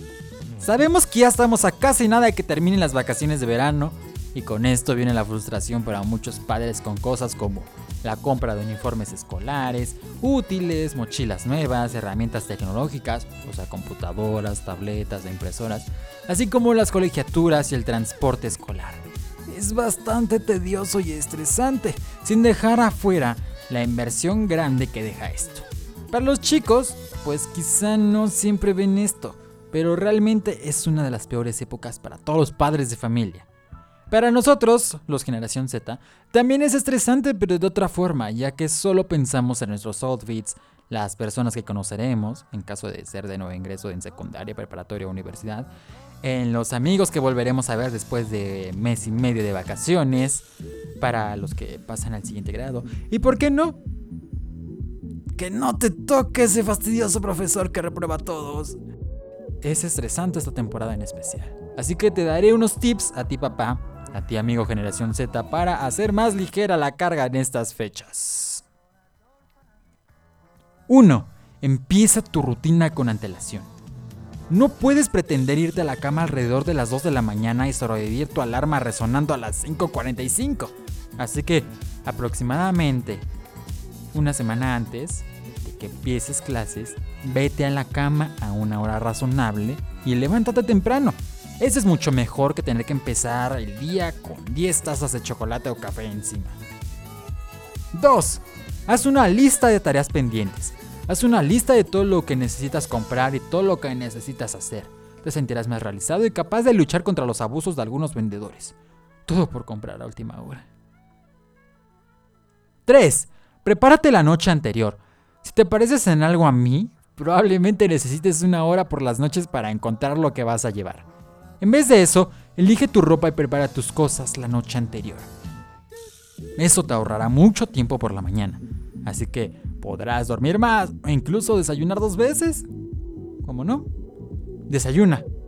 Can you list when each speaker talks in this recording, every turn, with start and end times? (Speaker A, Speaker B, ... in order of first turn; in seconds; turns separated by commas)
Speaker A: 0.6-33.5, Speaker A: 34.1-45.7, Speaker A: 46.2-50.5, Speaker A: 51.0-53.8, Speaker A: 55.4-58.8, Speaker A: 59.6-68.6, Speaker A: 70.9-73.7, Speaker A: 74.5-83.2, Speaker A: 84.1-96.6, Speaker A: 97.9-108.8, Speaker A: 109.3-110.7, Speaker A: 112.9-121.1, Speaker A: 121.6-125.3, Speaker A: 126.6-132.7, Speaker A: 133.4-133.9, Speaker A: 134.7-135.3